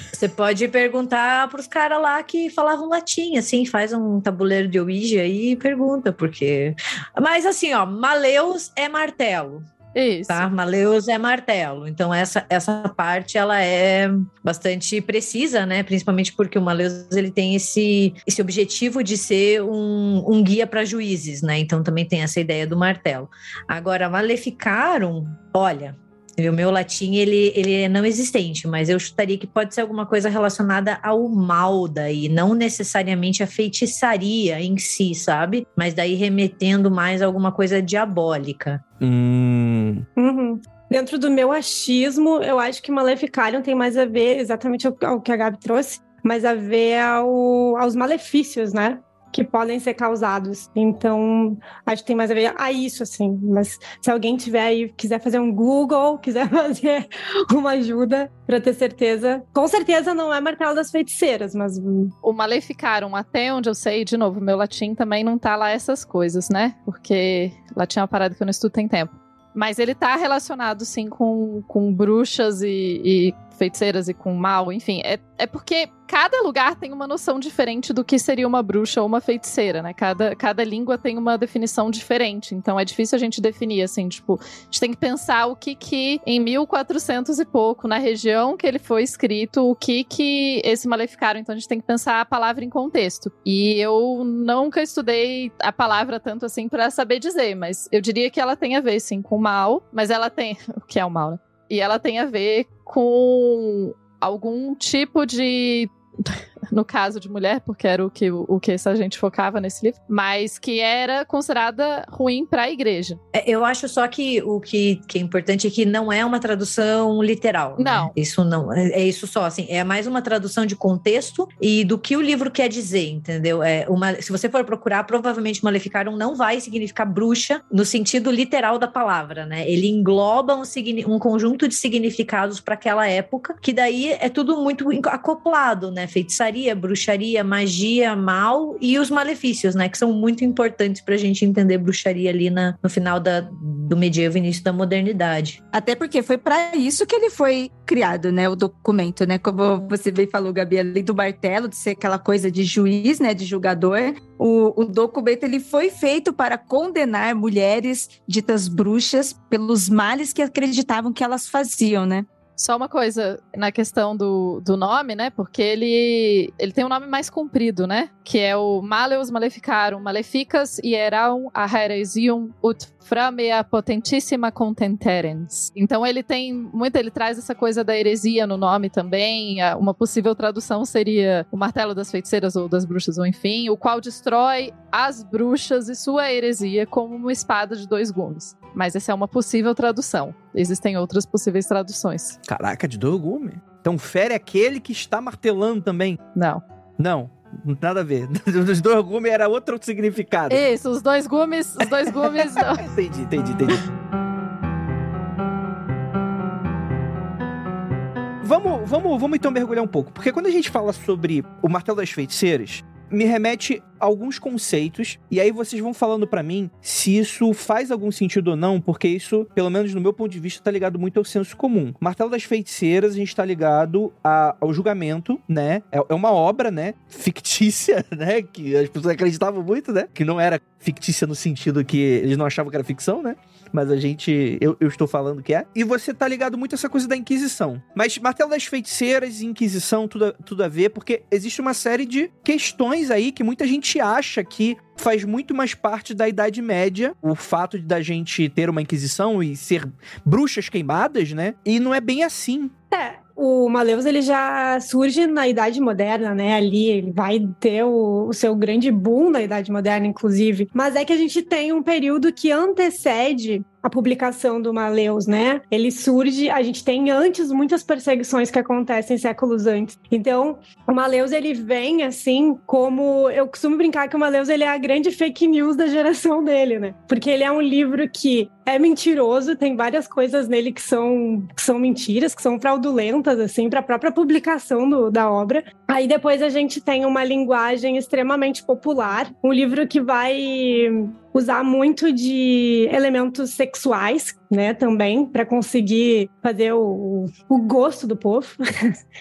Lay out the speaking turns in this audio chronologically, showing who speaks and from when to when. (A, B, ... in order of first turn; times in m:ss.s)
0:00.1-0:09.7 A
0:09.9-0:10.5 B
0:10.3-0:38.8 A
0:39.0-0:40.0 C
0:40.2-1:02.1 D
1:02.2-1:53.2 B
1:53.3-2:25.6 A
1:57.8-1:58.1 B
2:25.7-2:42.3 E
2:42.6-3:12.4 B
3:12.5-3:16.2 C
3:16.4-3:16.6 B
3:17.0-3:20.6 C
3:20.5-3:22.8 B
3:22.2-3:23.8 C
3:28.4-4:12.7 C
4:12.9-4:59.0 D